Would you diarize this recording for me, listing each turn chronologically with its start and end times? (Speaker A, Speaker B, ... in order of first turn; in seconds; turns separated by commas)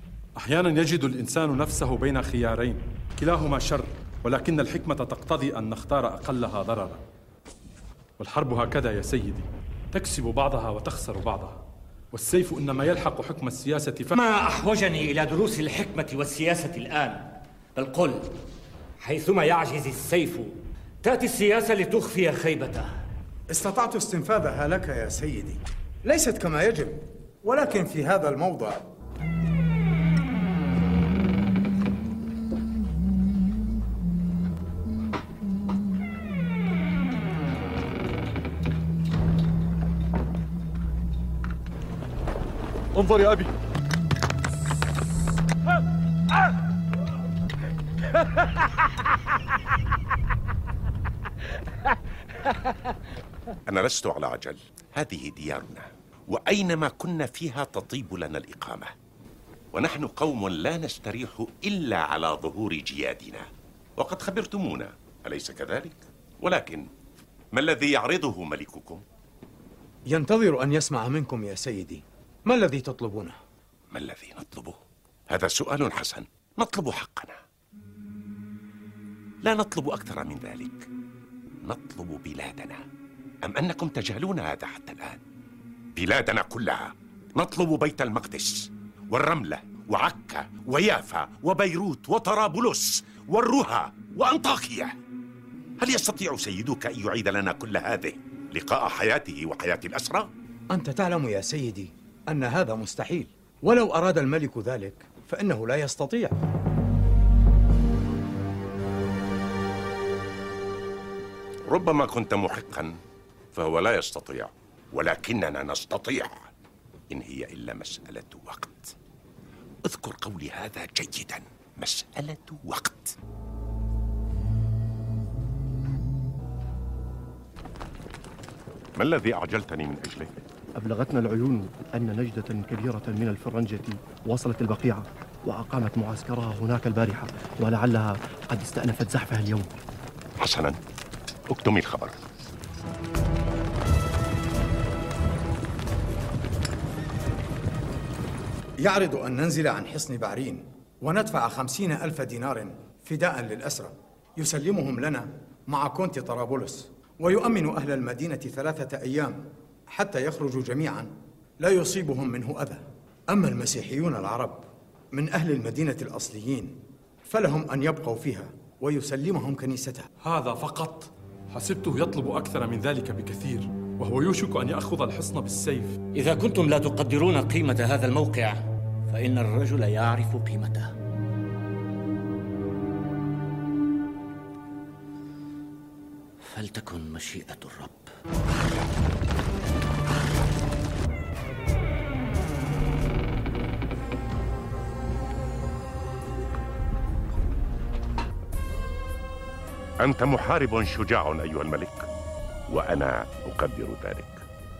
Speaker A: 0.4-7.0, Speaker A: 8.2-11.6, Speaker A: 12.1-14.2, Speaker B: 14.2-18.3, Speaker B: 19.0-22.9, Speaker C: 23.5-28.8, Speaker A: 43.0-43.5, Speaker D: 53.7-58.9, Speaker D: 59.7-66.9, Speaker D: 67.5-69.0, Speaker C: 70.1-73.4, Speaker D: 73.9-74.8, Speaker D: 75.3-77.4, Speaker D: 79.4-80.9, Speaker D: 81.6-82.8, Speaker D: 83.4-85.2, Speaker D: 86.0-94.9, Speaker D: 95.8-100.3, Speaker C: 100.7-106.3, Speaker D: 111.7-113.0, Speaker D: 113.5-116.5, Speaker D: 117.1-118.9, Speaker D: 119.8-123.2, Speaker D: 129.0-130.3, Speaker E: 130.8-139.7, Speaker D: 140.4-140.8, Speaker D: 141.5-142.2, Speaker C: 148.8-170.1, Speaker A: 170.2-175.9, Speaker B: 176.1-180.9, Speaker B: 186.5-188.1, Speaker D: 200.0-202.1, Speaker D: 202.7-204.4